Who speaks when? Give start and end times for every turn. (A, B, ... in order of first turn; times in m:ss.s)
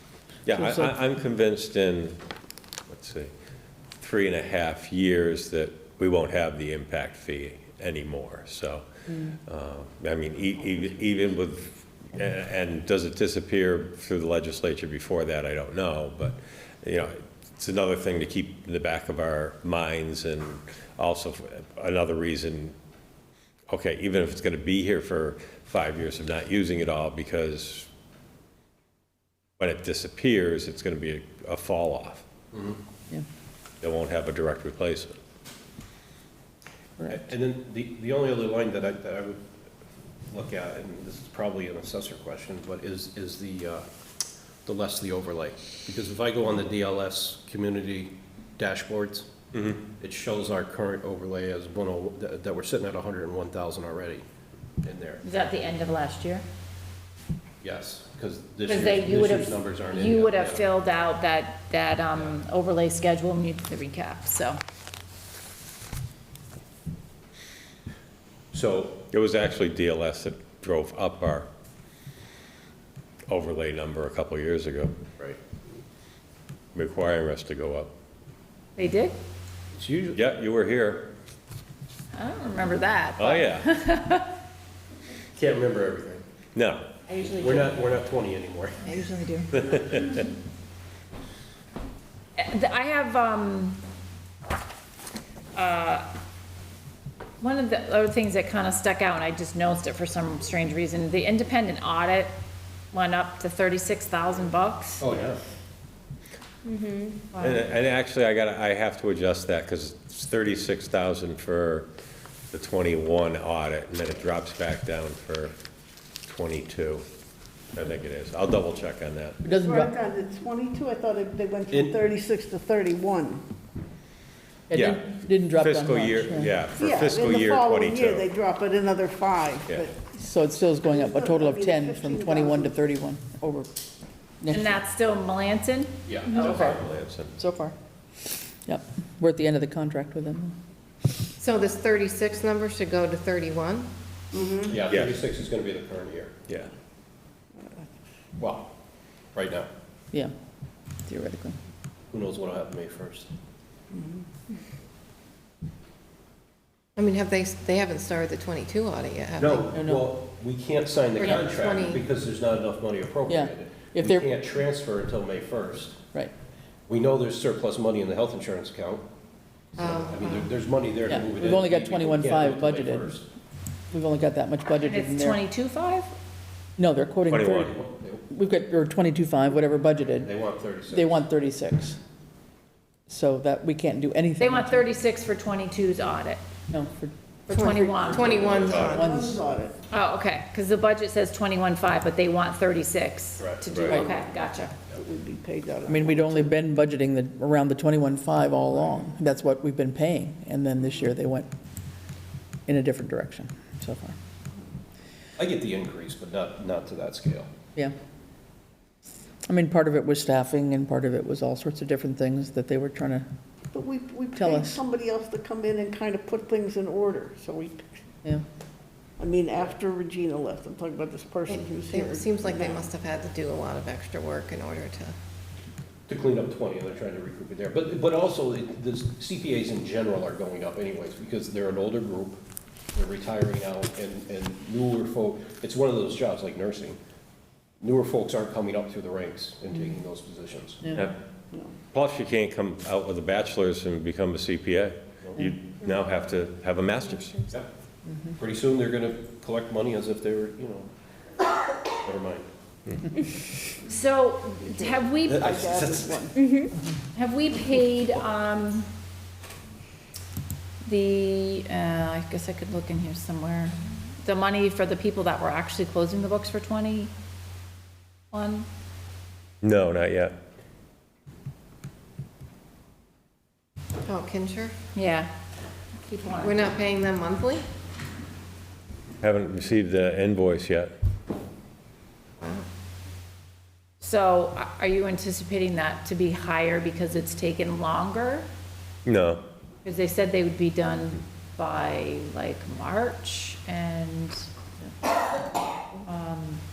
0:00.4-0:02.2 A
0:00.5-0:00.9 B
0:02.9-0:03.3 A
0:04.0-0:08.8 A
0:09.5-0:22.7 A
0:23.7-0:27.9 A
0:29.6-0:32.3 A
0:32.5-0:32.8 C
0:33.8-0:35.1 A
0:37.0-0:37.2 B
0:37.1-0:39.4 C
0:40.3-0:43.8 C
0:44.6-0:49.3 C
0:49.5-0:49.8 A
0:50.0-0:54.2 C
0:54.8-0:55.2 C
0:55.2-0:56.4 D
0:57.6-1:00.6 C
0:58.7-1:04.6 D
1:08.5-1:09.0 C
1:09.1-1:11.5 A
1:13.3-1:15.0 A
1:16.7-1:17.9 A
1:18.8-1:19.2 D
1:19.7-1:20.2 C
1:20.1-1:21.1 A
1:22.1-1:24.3 D
1:23.2-1:23.7 A
1:25.4-1:26.2 C
1:26.5-1:26.9 A
1:27.1-1:27.8 D
1:27.3-1:28.9 C
1:28.8-1:30.1 D
1:29.6-1:30.2 A
1:32.4-1:33.8 D
1:35.5-1:36.1 D
1:37.4-1:42.3 D
1:42.9-1:45.1 D
1:45.0-1:45.4 C
1:47.3-1:51.9 A
1:52.5-1:55.5 A
1:56.2-1:57.0 A
1:57.7-1:59.4 A
1:59.4-1:59.9 B
1:59.5-2:03.5 E
2:01.7-2:02.0 C
2:04.7-2:06.5 B
2:04.7-2:08.3 A
2:06.7-2:10.1 E
2:10.1-2:13.7 B
2:10.7-2:12.8 E
2:14.4-2:14.8 B
2:14.5-2:16.7 D
2:16.1-2:16.6 C
2:16.2-2:17.3 A
2:16.4-2:16.8 B
2:17.4-2:17.7 B
2:18.6-2:20.5 B
2:21.4-2:23.9 F
2:24.3-2:24.8 E
2:24.7-2:26.4 C
2:24.8-2:25.1 A
2:26.5-2:26.7 A
2:27.5-2:28.0 E
2:28.4-2:28.7 C
2:29.3-2:29.7 C
2:31.0-2:31.6 B
2:32.1-2:33.3 C
2:33.9-2:34.2 E
2:37.0-2:39.7 F
2:39.4-2:46.0 C
2:39.7-2:40.1 B
2:41.2-2:42.0 F
2:43.3-2:44.3 B
2:46.9-2:49.0 C
2:49.8-2:53.2 C
2:49.8-2:50.5 F
2:51.1-2:53.1 B
2:53.9-2:55.4 B
2:54.8-2:56.1 D
2:56.8-2:57.7 B
2:57.3-2:57.7 A
2:57.7-2:58.2 C
2:58.3-3:00.3 B
3:00.2-3:01.1 C
3:00.9-3:02.0 B
3:03.1-3:04.9 B
3:04.4-3:06.4 D
3:06.7-3:09.4 B
3:07.5-3:08.5 D
3:07.5-3:09.3 F
3:08.1-3:08.8 C
3:08.6-3:09.0 A
3:08.8-3:09.8 E
3:09.9-3:14.7 D
3:13.4-3:13.6 C
3:14.9-3:16.6 E
3:15.8-3:21.5 B
3:22.7-3:24.2 B
3:25.4-3:27.5 C
3:29.5-3:33.3 B
3:33.7-3:38.0 E
3:34.4-3:34.8 B
3:39.2-3:42.9 E
3:41.5-3:45.1 F
3:46.1-3:52.4 C
3:52.9-3:57.0 C
3:57.8-4:00.8 C
4:00.8-4:01.1 B
4:01.9-4:07.5 A
4:08.4-4:10.9 C
4:12.0-4:12.4 C
4:13.8-4:15.6 D
4:14.7-4:16.4 E
4:15.2-4:16.1 C
4:17.1-4:18.9 D
4:20.8-4:27.1 D
4:28.3-4:28.7 D
4:29.6-4:30.3 A
4:34.0-4:34.7 F
4:34.9-4:35.3 D
4:36.0-4:36.7 D
4:36.4-4:37.6 F
4:39.2-4:40.9 A
4:44.0-4:48.5 D
4:49.0-4:49.4 A
4:49.8-4:54.5 D
4:56.1-4:56.6 D